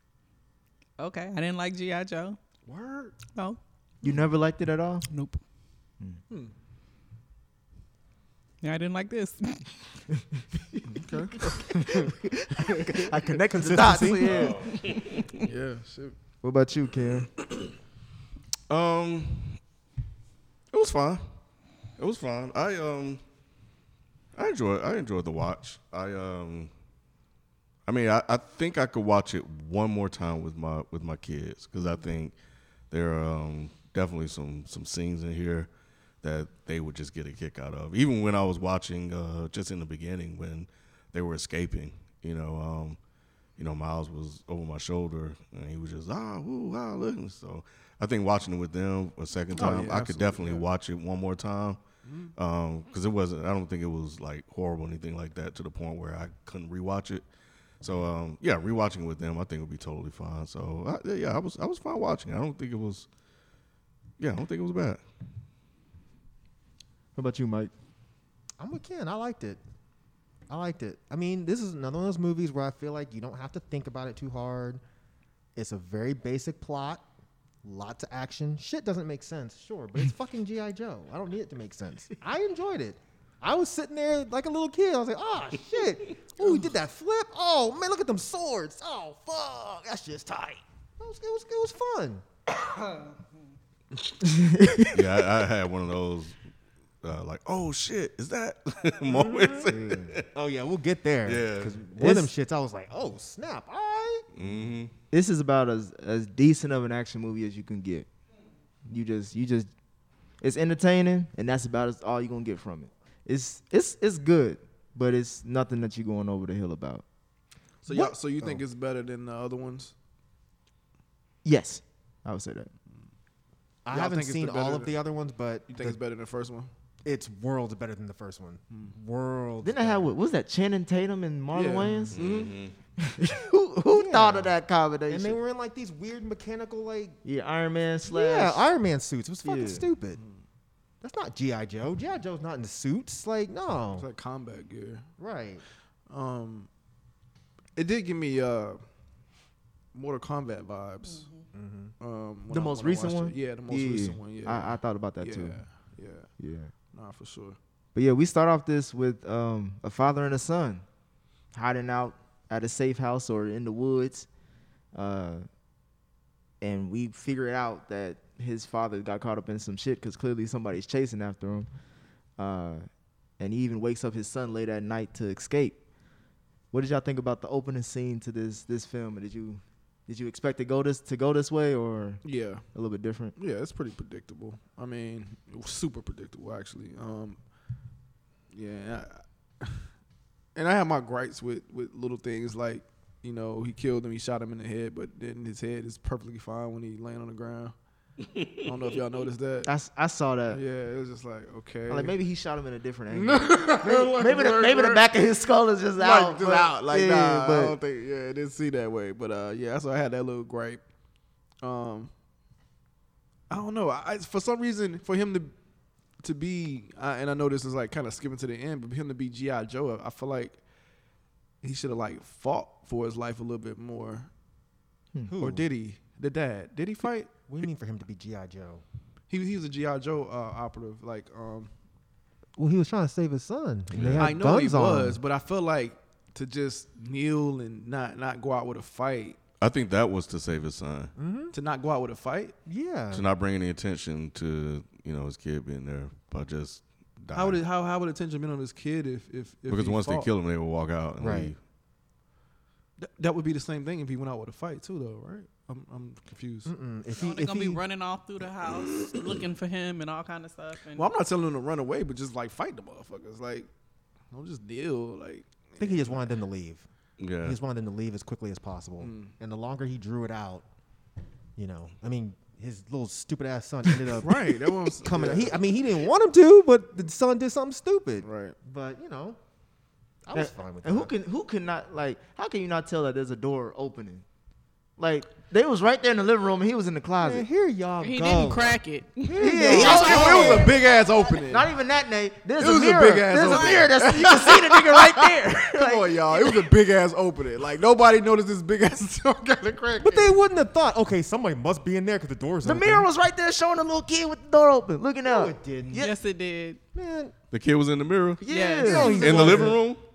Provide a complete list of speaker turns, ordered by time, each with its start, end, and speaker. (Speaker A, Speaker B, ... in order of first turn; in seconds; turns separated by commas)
Speaker A: 1.0-2.4, Speaker B: 2.7-3.2, Speaker A: 3.4-4.2, Speaker C: 4.0-5.1, Speaker A: 5.1-5.4, Speaker A: 8.6-9.7, Speaker B: 10.9-11.5, Speaker C: 11.6-14.6, Speaker D: 13.2-14.5, Speaker E: 14.3-15.2, Speaker B: 15.4-16.1, Speaker C: 16.4-17.3, Speaker E: 18.7-19.6, Speaker E: 20.7-21.3, Speaker E: 22.0-23.2, Speaker E: 24.4-26.7, Speaker E: 27.9-32.4, Speaker E: 32.9-35.7, Speaker E: 36.2-43.0, Speaker E: 43.6-51.8, Speaker B: 49.5-50.7, Speaker B: 52.0-52.3, Speaker E: 52.4-57.2, Speaker E: 57.8-63.1, Speaker E: 64.2-65.0, Speaker C: 67.2-67.7, Speaker D: 68.6-69.6, Speaker D: 70.5-74.8, Speaker D: 75.5-77.0, Speaker D: 77.6-92.2, Speaker C: 94.2-95.0, Speaker E: 94.9-96.4, Speaker E: 97.0-100.2, Speaker D: 99.1-99.7, Speaker C: 99.7-100.2, Speaker D: 100.3-104.2, Speaker E: 101.3-101.8, Speaker C: 102.0-102.3, Speaker E: 104.3-104.9, Speaker C: 105.1-108.1, Speaker C: 108.9-109.7, Speaker C: 110.4-117.0, Speaker B: 117.8-119.9, Speaker C: 117.9-118.5, Speaker C: 121.5-122.7, Speaker D: 123.8-126.0, Speaker B: 123.9-124.9, Speaker B: 125.7-126.7, Speaker D: 127.0-130.1, Speaker C: 129.6-132.2, Speaker B: 131.5-132.5, Speaker E: 132.1-132.7, Speaker C: 133.0-135.4, Speaker D: 133.9-134.5, Speaker D: 135.1-137.2, Speaker C: 137.2-138.7, Speaker D: 138.1-140.2, Speaker C: 139.4-139.9, Speaker D: 141.0-144.1, Speaker B: 143.9-145.1, Speaker D: 145.2-145.6, Speaker B: 146.1-146.7, Speaker B: 147.8-148.8, Speaker B: 149.9-151.3, Speaker D: 151.5-151.9, Speaker B: 152.0-156.3, Speaker C: 152.5-155.6, Speaker C: 156.4-156.7, Speaker B: 156.9-157.6, Speaker C: 157.9-160.8, Speaker C: 161.5-164.3, Speaker C: 164.9-165.4, Speaker C: 166.6-171.7, Speaker C: 172.4-172.9, Speaker C: 173.4-175.8, Speaker C: 176.7-182.2, Speaker B: 182.2-182.6, Speaker C: 182.7-183.3, Speaker B: 183.4-187.4, Speaker B: 188.5-189.8, Speaker B: 190.6-197.7, Speaker B: 198.6-199.7, Speaker C: 199.7-200.6, Speaker B: 200.5-202.2, Speaker C: 201.9-207.8, Speaker B: 203.1-205.1, Speaker B: 206.0-210.8, Speaker B: 211.6-212.1, Speaker B: 213.5-215.5, Speaker B: 216.2-220.6, Speaker B: 221.6-224.3, Speaker D: 225.3-225.6, Speaker B: 225.4-227.3, Speaker D: 227.5-228.8, Speaker B: 229.3-231.7, Speaker D: 232.6-235.2, Speaker E: 233.9-234.3, Speaker B: 234.2-239.4, Speaker E: 239.6-241.1, Speaker D: 241.2-241.5, Speaker B: 241.5-242.6, Speaker D: 242.7-243.3, Speaker E: 243.1-247.6, Speaker B: 247.3-250.3, Speaker E: 249.7-251.6, Speaker D: 251.2-251.5, Speaker B: 253.0-256.7, Speaker D: 256.7-257.8, Speaker A: 257.2-261.1, Speaker B: 258.8-259.3, Speaker B: 261.0-263.7, Speaker B: 264.3-266.3, Speaker D: 265.8-266.9, Speaker E: 267.2-267.6, Speaker D: 267.4-270.7, Speaker B: 269.0-269.3, Speaker D: 271.6-279.4, Speaker B: 274.0-275.6, Speaker B: 278.2-278.6, Speaker D: 280.3-281.1, Speaker C: 280.3-284.2, Speaker C: 285.0-287.5, Speaker D: 287.2-290.8, Speaker A: 288.0-290.8, Speaker C: 289.4-290.8, Speaker B: 289.7-291.7, Speaker C: 291.3-296.7, Speaker B: 292.6-300.3, Speaker A: 293.4-293.9, Speaker D: 300.0-303.1, Speaker C: 302.6-306.1, Speaker D: 305.2-306.1, Speaker A: 305.9-306.8, Speaker D: 306.9-307.3, Speaker E: 307.5-308.4, Speaker A: 308.4-309.6, Speaker C: 308.4-309.7, Speaker D: 308.8-309.8, Speaker E: 309.1-310.0